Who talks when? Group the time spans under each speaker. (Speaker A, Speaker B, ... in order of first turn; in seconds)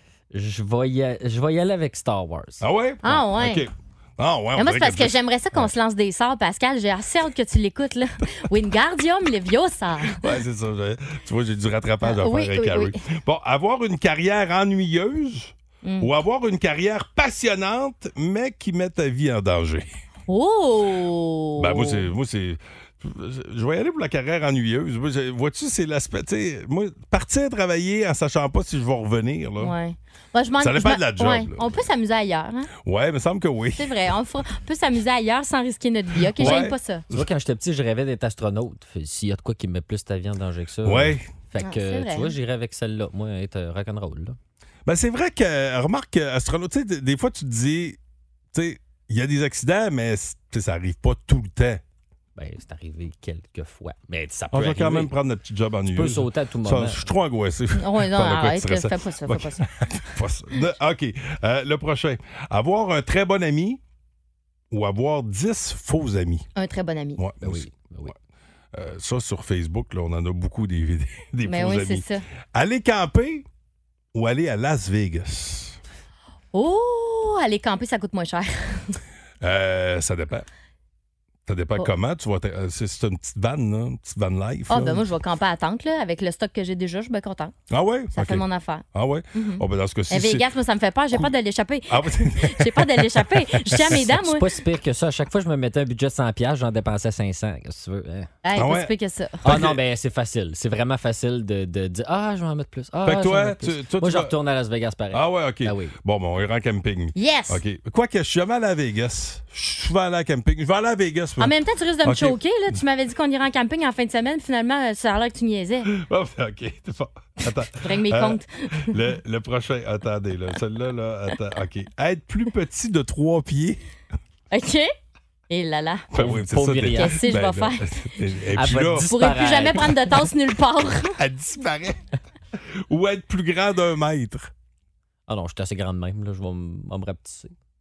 Speaker A: 0.3-2.6, 36.4-44.4, 52.4-55.1, 55.9-57.0, 67.4-68.1, 94.1-98.3, 99.5-106.0, 126.2-127.2, 128.6-130.1, 135.3-137.5
Speaker B: 2.6-5.7, 10.0-19.9, 21.6-29.8, 30.6-31.8, 32.8-33.9, 36.4-37.3, 40.8-41.2, 44.9-48.0, 48.5-51.8, 54.5-63.8, 64.7-66.5, 67.2-68.1, 68.7-73.5, 74.1-75.8, 79.4-80.5, 81.5-85.0, 87.7-90.5, 91.9-94.0, 98.6-98.9, 99.5-99.8, 103.0-104.3, 105.1-111.5, 112.0-112.4, 115.9-123.8, 126.1-129.1, 131.2-132.0, 132.9-134.5
Speaker C: 3.0-3.7, 4.6-10.2, 12.0-13.0, 15.8-16.1, 20.3-22.1, 29.6-32.7, 33.8-37.0, 41.6-42.4, 57.8-59.6, 66.6-67.2, 71.5-72.2, 76.5-79.0, 84.7-87.5, 88.1-94.5, 98.4-99.4, 107.2-107.6, 111.4-115.9, 117.7-118.9, 124.5-124.9, 125.5-126.1, 126.9-128.1, 129.1-131.2